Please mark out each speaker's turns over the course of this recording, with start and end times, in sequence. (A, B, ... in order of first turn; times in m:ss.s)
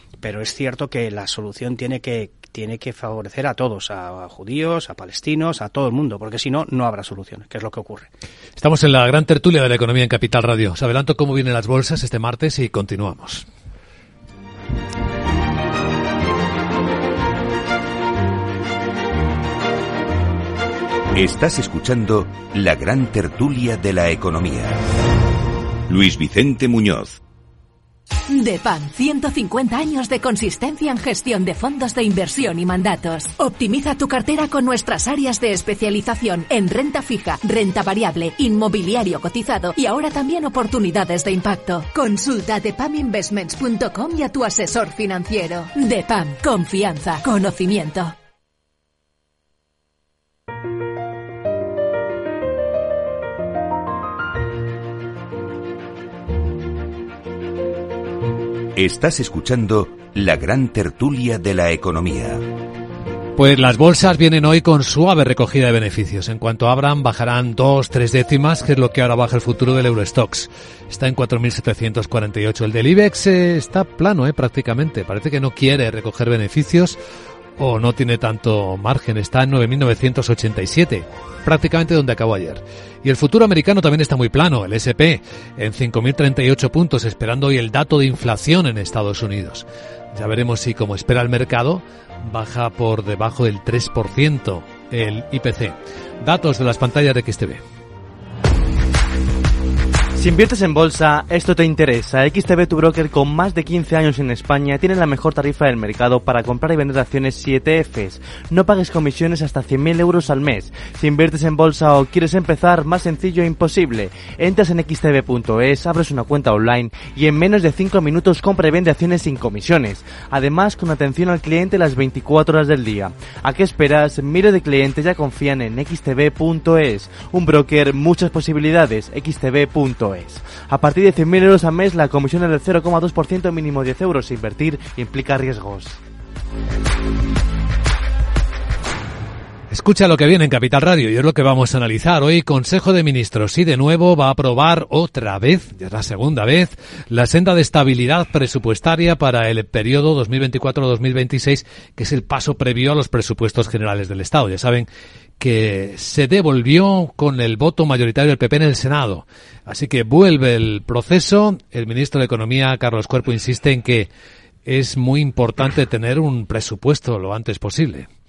0:00.2-0:08.1 A
0:08.6-0:13.4 B
0:21.1-0:24.8 C
0:25.9-0:27.2 C
0:28.3-0:48.1 D
0:58.8-1:02.4 C
1:03.4-1:17.0 B
1:17.6-1:37.6 B
1:40.1-2:16.0 E
2:19.7-2:34.9 B
2:35.4-2:44.1 B
2:44.6-2:48.1 B